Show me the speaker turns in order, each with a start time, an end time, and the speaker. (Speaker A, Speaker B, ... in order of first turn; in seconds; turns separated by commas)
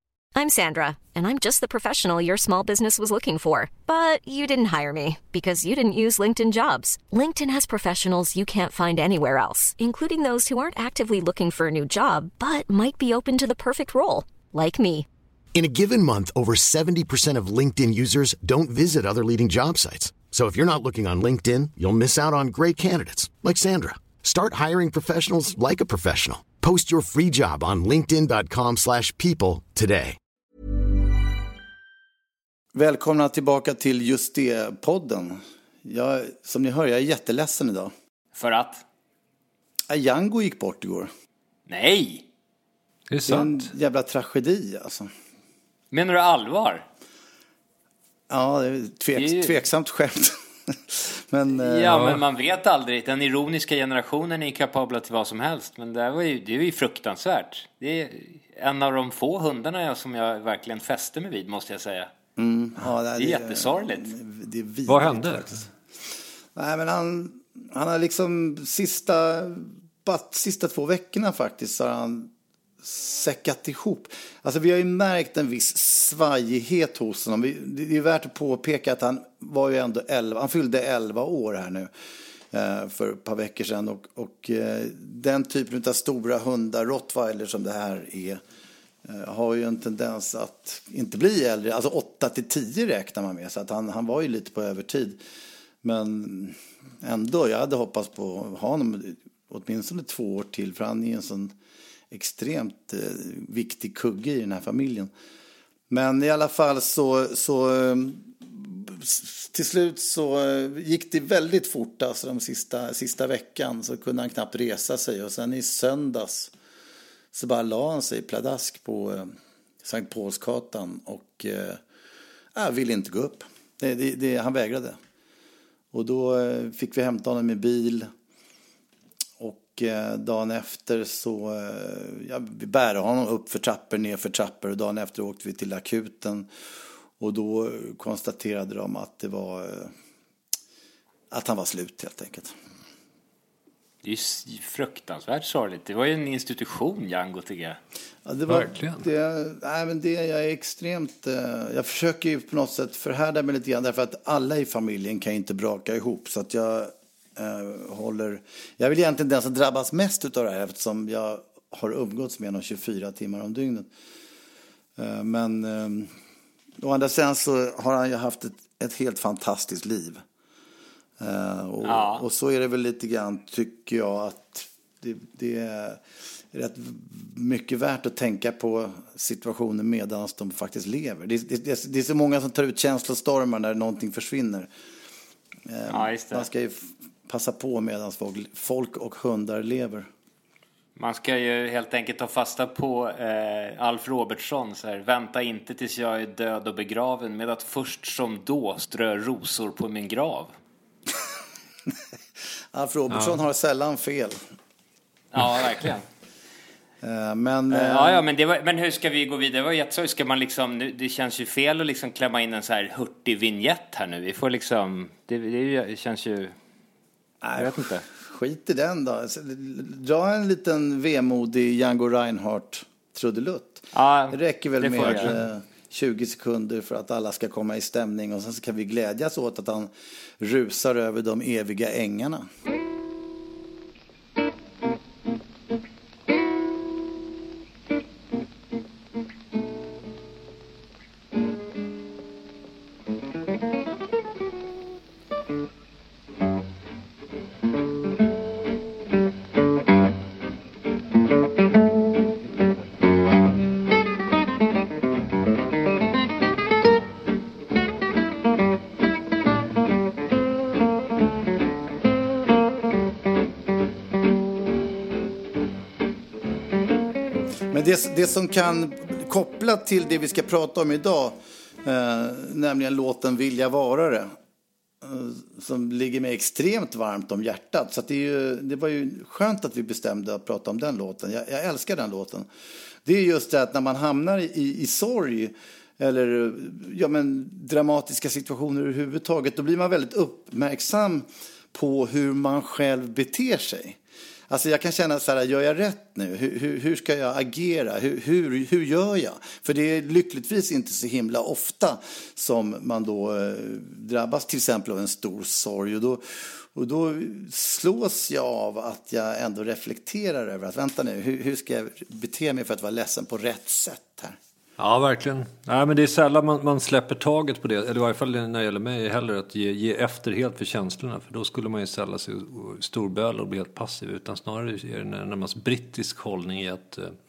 Speaker A: 0.3-15.1, Speaker B: 15.5-30.2, Speaker C: 32.7-37.9, Speaker D: 38.3-38.8, Speaker C: 39.9-41.1, Speaker D: 41.7-42.2, Speaker E: 43.1-43.7, Speaker C: 43.3-45.1, Speaker D: 45.9-46.8, Speaker C: 48.3-51.9, Speaker D: 49.1-49.6, Speaker D: 51.6-62.1, Speaker E: 51.9-52.2, Speaker C: 62.4-65.7, Speaker D: 63.1-64.1, Speaker E: 64.9-65.6, Speaker C: 66.5-72.3, Speaker C: 72.8-81.9, Speaker C: 82.5-88.4, Speaker C: 89.0-95.2, Speaker C: 95.8-101.5, Speaker C: 102.1-105.1, Speaker C: 105.9-116.5, Speaker C: 117.3-119.3, Speaker C: 119.8-121.8, Speaker C: 122.5-125.0, Speaker C: 125.9-128.1, Speaker C: 129.4-136.5, Speaker C: 137.2-139.9, Speaker C: 141.3-142.5, Speaker D: 144.0-147.8, Speaker C: 148.2-163.9, Speaker E: 148.5-149.0, Speaker C: 165.0-166.1, Speaker C: 166.8-170.2, Speaker C: 171.2-176.0, Speaker D: 171.8-172.2, Speaker C: 176.5-184.7, Speaker C: 185.7-190.1, Speaker D: 185.9-186.5, Speaker D: 190.9-200.5, Speaker C: 202.7-204.4, Speaker E: 203.1-203.4, Speaker D: 205.3-206.0, Speaker C: 207.0-208.2, Speaker D: 207.7-216.5, Speaker C: 217.4-232.5, Speaker D: 217.6-218.0, Speaker D: 223.9-225.3, Speaker C: 267.7-274.3, Speaker C: 275.0-282.5, Speaker C: 283.0-294.0, Speaker C: 294.5-314.4, Speaker E: 314.8-327.1